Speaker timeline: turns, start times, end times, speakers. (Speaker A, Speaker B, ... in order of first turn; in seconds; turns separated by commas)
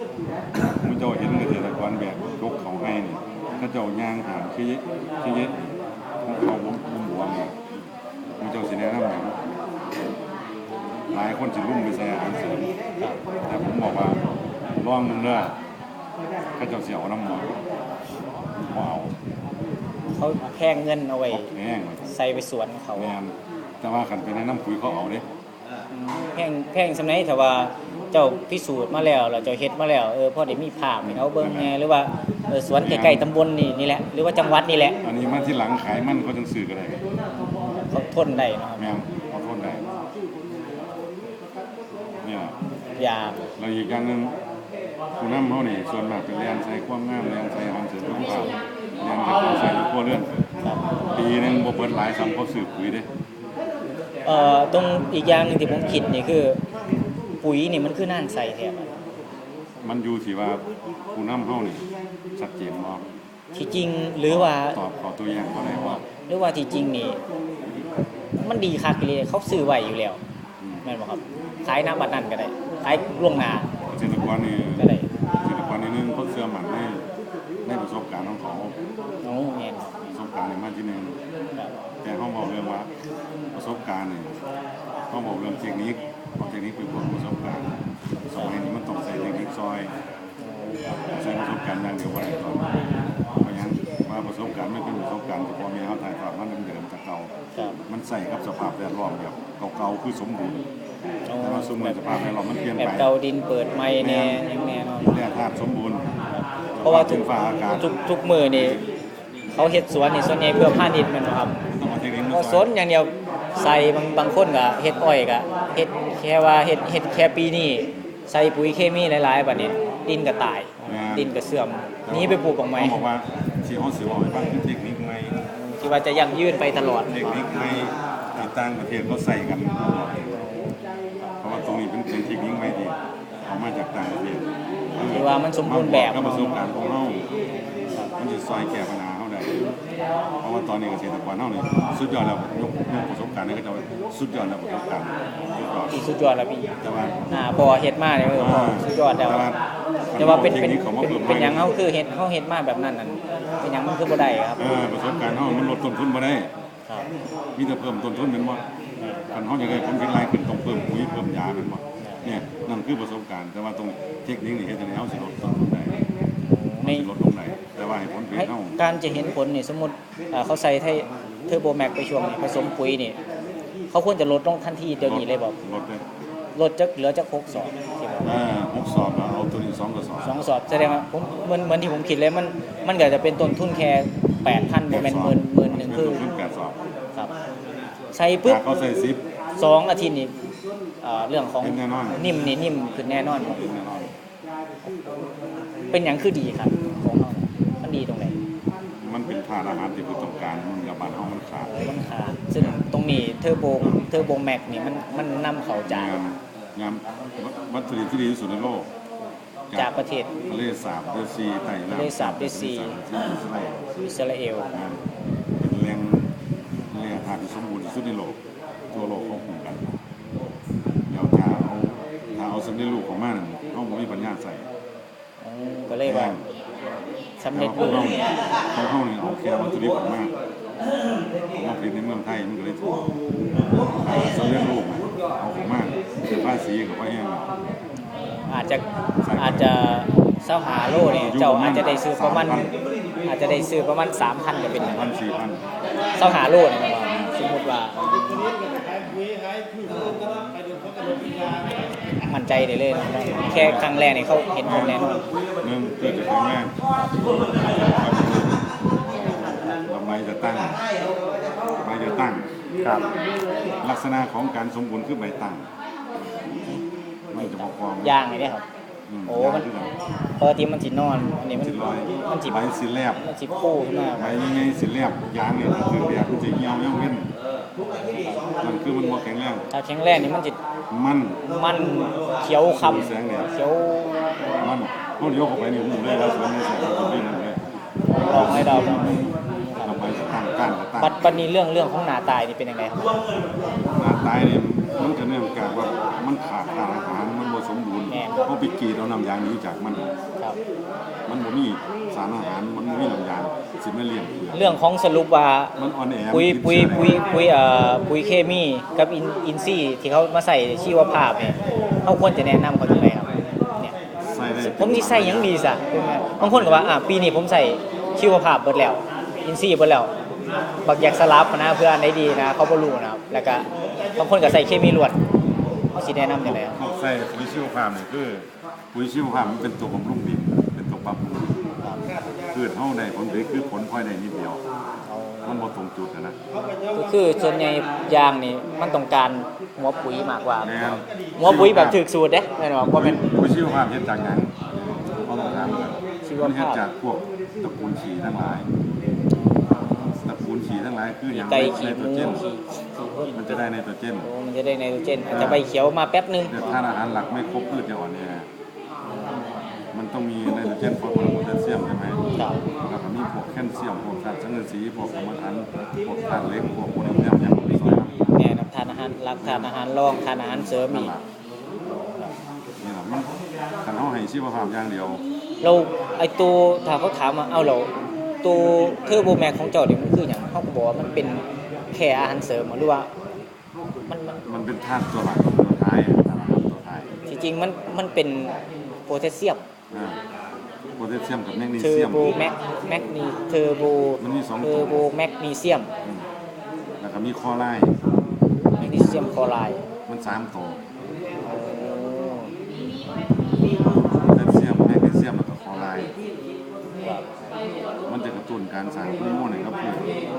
Speaker A: 0.6-5.7, Speaker A: 6.2-7.5, Speaker A: 8.4-9.4, Speaker A: 11.1-12.7, Speaker A: 13.4-14.2, Speaker A: 14.8-15.5, Speaker A: 16.6-17.5, Speaker A: 18.5-19.1, Speaker B: 20.1-21.5, Speaker A: 21.3-22.1, Speaker B: 22.1-23.1, Speaker A: 22.9-25.2, Speaker B: 25.9-35.0, Speaker A: 31.0-31.7, Speaker A: 32.8-33.3, Speaker A: 35.0-37.0, Speaker B: 37.3-39.0, Speaker A: 38.8-39.8, Speaker A: 42.2-42.5, Speaker B: 43.0-43.4, Speaker A: 43.6-44.3, Speaker A: 45.2-50.3, Speaker B: 48.1-48.5, Speaker A: 51.1-53.1, Speaker B: 54.2-56.6, Speaker B: 57.4-58.9, Speaker A: 59.8-61.9, Speaker A: 62.4-63.0, Speaker B: 63.5-64.8, Speaker A: 64.3-66.0, Speaker B: 65.5-67.2, Speaker B: 68.4-70.2, Speaker A: 70.6-70.8, Speaker B: 70.8-73.7, Speaker A: 73.9-74.9, Speaker B: 74.8-75.0, Speaker A: 75.4-77.0, Speaker A: 77.6-78.7, Speaker B: 79.2-79.9, Speaker A: 80.1-81.2, Speaker A: 82.0-82.9, Speaker A: 83.5-84.4, Speaker A: 85.1-87.7, Speaker A: 88.3-89.9, Speaker B: 90.4-90.9, Speaker A: 91.2-92.7, Speaker A: 93.4-97.3, Speaker A: 97.9-100.6, Speaker B: 101.3-105.2, Speaker A: 101.4-103.1, Speaker A: 104.0-104.4, Speaker A: 105.0-106.1, Speaker A: 106.8-107.9, Speaker B: 106.8-108.8, Speaker A: 108.6-108.8, Speaker B: 109.5-111.6, Speaker A: 111.8-112.7, Speaker B: 112.3-123.0, Speaker A: 120.8-121.3, Speaker A: 122.0-125.3, Speaker B: 125.5-127.4, Speaker A: 127.1-130.4, Speaker B: 130.3-130.7, Speaker A: 131.4-132.9, Speaker A: 133.4-134.4, Speaker A: 134.9-137.2, Speaker B: 135.0-136.6, Speaker B: 137.8-138.1, Speaker A: 138.2-139.5, Speaker A: 140.4-146.0, Speaker B: 145.9-146.7, Speaker A: 146.8-147.2, Speaker B: 147.3-149.4, Speaker A: 148.3-149.6, Speaker A: 150.1-151.7, Speaker B: 150.2-154.6, Speaker A: 154.6-156.5, Speaker A: 157.6-158.6, Speaker A: 159.3-166.0, Speaker B: 162.0-162.3, Speaker B: 166.4-167.1, Speaker A: 166.8-168.8, Speaker B: 168.3-173.2, Speaker B: 173.9-175.6, Speaker A: 175.0-176.0, Speaker B: 176.6-178.4, Speaker A: 178.2-180.5, Speaker B: 180.2-186.2, Speaker A: 184.9-186.8, Speaker B: 188.1-188.6, Speaker A: 188.4-189.2, Speaker B: 189.6-190.3, Speaker B: 191.0-193.7, Speaker A: 191.6-192.3, Speaker A: 193.4-194.1, Speaker B: 195.9-198.3, Speaker A: 199.0-201.9, Speaker B: 201.6-206.2, Speaker A: 205.8-208.9, Speaker B: 209.7-210.3, Speaker A: 210.5-213.8, Speaker B: 211.9-213.0, Speaker B: 214.0-214.7, Speaker A: 214.7-215.0, Speaker A: 215.6-216.3, Speaker A: 216.9-218.4, Speaker A: 218.9-219.8, Speaker A: 221.1-224.7, Speaker B: 225.4-226.3, Speaker A: 226.0-226.4, Speaker B: 227.4-228.0, Speaker A: 227.5-230.3, Speaker A: 231.5-233.0, Speaker A: 234.0-237.5, Speaker B: 238.0-238.8, Speaker A: 239.2-239.7, Speaker B: 239.3-242.7, Speaker A: 240.9-242.7, Speaker B: 243.2-245.0, Speaker A: 244.7-245.6, Speaker B: 246.2-248.5, Speaker A: 247.0-247.3, Speaker B: 252.2-255.2, Speaker A: 253.3-253.9, Speaker A: 254.6-255.1, Speaker A: 255.6-256.7, Speaker A: 257.5-258.7, Speaker B: 259.2-259.7, Speaker A: 259.9-260.8, Speaker A: 261.8-263.1, Speaker A: 263.8-265.6, Speaker A: 267.3-268.1, Speaker B: 267.3-268.6, Speaker A: 269.1-269.9, Speaker B: 269.2-269.7, Speaker B: 270.4-272.7, Speaker A: 271.5-273.2, Speaker B: 273.2-274.4, Speaker A: 274.2-277.3, Speaker B: 277.8-278.4, Speaker A: 278.6-279.6, Speaker B: 279.7-280.6, Speaker A: 280.9-281.4, Speaker B: 281.4-284.1, Speaker A: 282.6-283.5, Speaker A: 284.6-287.6, Speaker B: 288.1-290.1, Speaker A: 288.2-291.2, Speaker B: 291.0-293.1, Speaker A: 294.0-300.1, Speaker B: 298.1-298.5, Speaker A: 301.3-304.8, Speaker B: 304.5-305.7, Speaker A: 305.8-307.2, Speaker B: 306.3-313.9, Speaker A: 314.3-315.5, Speaker B: 314.6-320.1, Speaker A: 316.2-316.9, Speaker B: 320.8-325.2, Speaker B: 325.9-326.8, Speaker A: 326.4-331.5, Speaker A: 332.5-334.6, Speaker B: 335.1-335.7, Speaker A: 335.4-336.4, Speaker B: 336.9-343.2, Speaker A: 340.6-342.0, Speaker A: 342.9-348.7, Speaker B: 346.2-346.8, Speaker B: 349.8-350.1, Speaker A: 350.2-352.4, Speaker B: 351.3-353.6, Speaker A: 353.3-354.3, Speaker B: 354.2-356.8, Speaker A: 355.3-355.6, Speaker A: 356.5-358.5, Speaker B: 359.1-359.6, Speaker A: 359.9-362.2, Speaker A: 362.9-368.2, Speaker B: 368.3-371.1, Speaker A: 369.4-369.7, Speaker A: 370.4-371.2, Speaker B: 372.0-372.3, Speaker A: 372.8-373.3, Speaker A: 373.8-375.2, Speaker B: 375.6-377.9, Speaker B: 378.4-383.1, Speaker B: 384.1-384.4, Speaker A: 384.4-387.1, Speaker B: 387.3-389.6, Speaker A: 389.9-390.2, Speaker A: 391.0-392.4, Speaker B: 391.8-395.9, Speaker A: 394.2-395.1, Speaker A: 397.0-397.9, Speaker A: 398.8-399.4, Speaker B: 398.8-399.8, Speaker A: 400.1-400.8, Speaker B: 401.4-402.5, Speaker A: 404.3-406.1, Speaker A: 408.1-410.0